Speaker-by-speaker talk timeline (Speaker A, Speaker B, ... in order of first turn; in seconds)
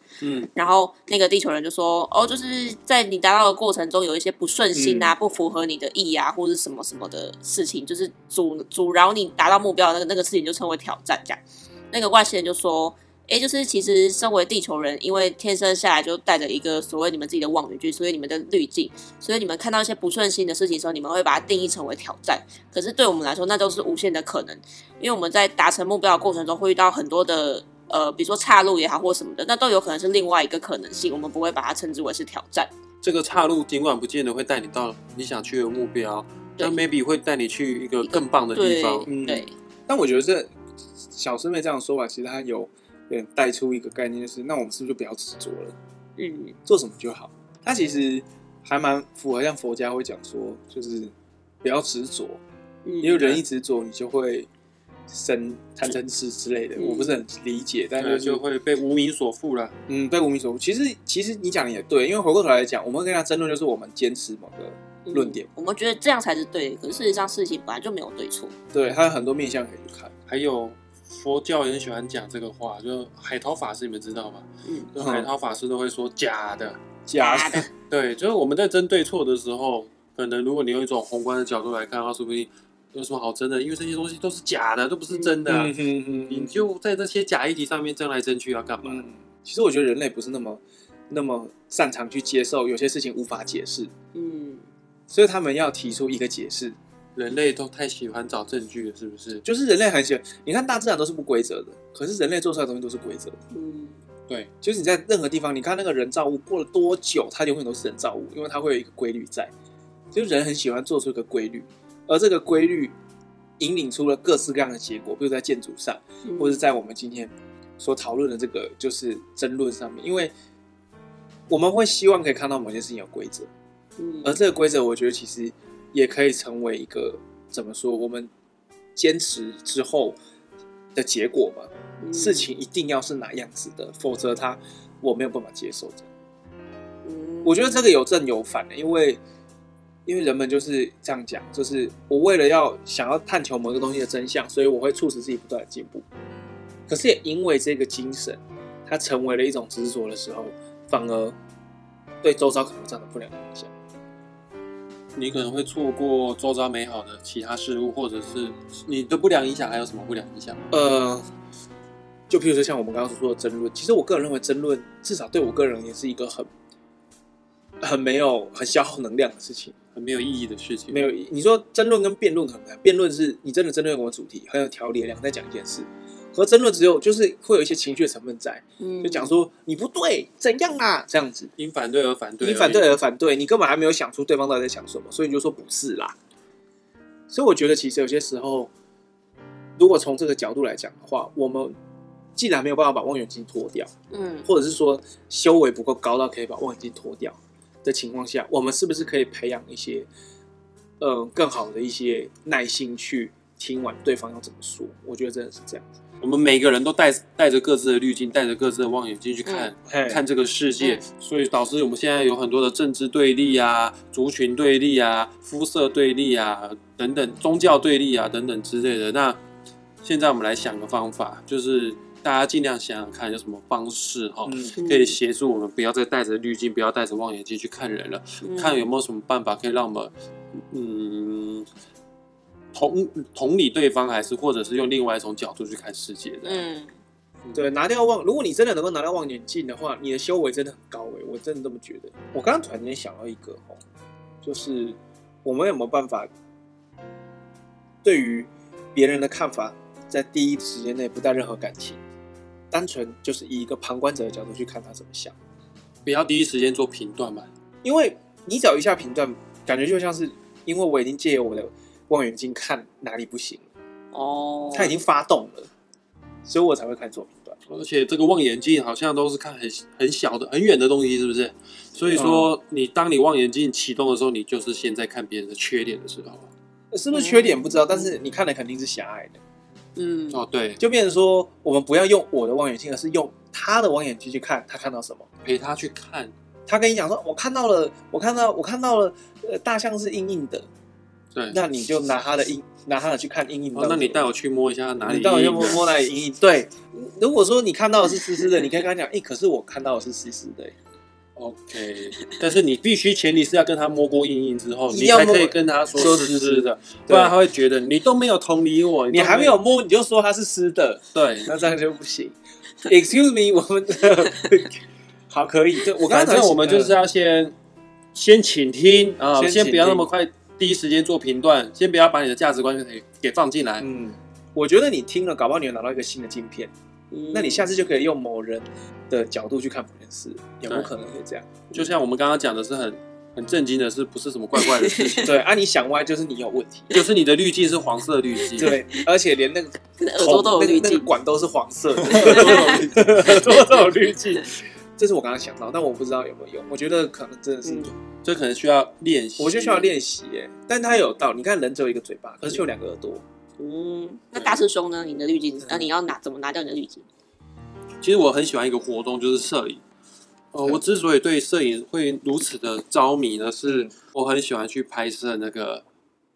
Speaker A: 0.2-0.5, 33.0-39.1, 58.0-59.7, 70.3-76.8, 77.9-85.8, 86.3-89.0, 97.2-99.4, 155.2-160.6, 169.9-171.0, 181.6-182.9, 206.2-219.4, 220.0-231.7, 232.7-236.7, 256.0-257.5, 267.7-276.5, 280.3-280.8, 285.4-286.3, 293.7-295.8, 301.4-309.6, 311.1-311.5, 316.1-317.5, 318.1-323.8, 331.7-335.4, 336.9-338.8, 342.0-343.8, 348.2-349.9, 358.0-359.8, 360.5-365.8
Speaker B: 0.5-11.4, 11.9-32.7, 38.0-39.5, 46.2-46.5, 52.8-53.3, 56.8-57.2, 65.0-68.5, 74.6-74.9, 77.2-77.7, 85.1-85.4, 94.1-94.6, 103.5-104.0, 116.2-116.6, 124.0-124.4, 132.0-132.5, 137.0-137.8, 178.8-179.3, 194.1-194.5, 209.4-209.7, 224.8-225.2, 228.4-228.8, 236.4-236.9, 264.1-264.9, 277.1-278.1, 279.9-280.4, 327.1-327.6, 334.6-335.4, 338.5-339.0, 340.0-341.1, 342.1-342.9, 347.6-347.9, 353.6-357.0
Speaker C: 4.7-5.1, 39.0-40.5, 41.1-45.7, 46.6-51.1, 51.6-52.4, 53.0-54.5, 55.1-58.4, 59.9-65.5, 68.7-70.1, 74.9-75.3, 77.1-77.7, 85.5-86.6, 88.8-93.9, 95.1-96.8, 99.4-103.4, 104.6-109.5, 110.1-112.9, 113.6-120.3, 121.5-123.5, 124.2-128.3, 128.9-130.2, 130.9-136.1, 137.4-139.2, 140.1-146.0, 146.9-151.3, 152.2-153.7, 160.7-161.3, 162.3-166.5, 167.8-169.7, 170.9-181.5, 182.4-186.2, 187.3-188.7, 189.8-191.7, 192.3-193.9, 194.4-200.1, 201.0-205.9, 209.8-210.2, 224.4-224.8, 237.5-243.8, 244.4-246.3, 248.0-252.0, 252.7-255.3, 257.8-263.6, 264.7-265.7, 266.4-267.6, 272.1-272.5, 276.9-279.4, 280.8-285.2, 286.7-290.7, 291.5-294.3, 295.0-300.7, 304.9-307.3, 309.1-316.9, 319.4-320.1, 323.8-326.7, 327.3-331.7, 335.2-336.9, 338.6-347.9, 349.4-353.2, 355.6-355.9, 363.6-363.9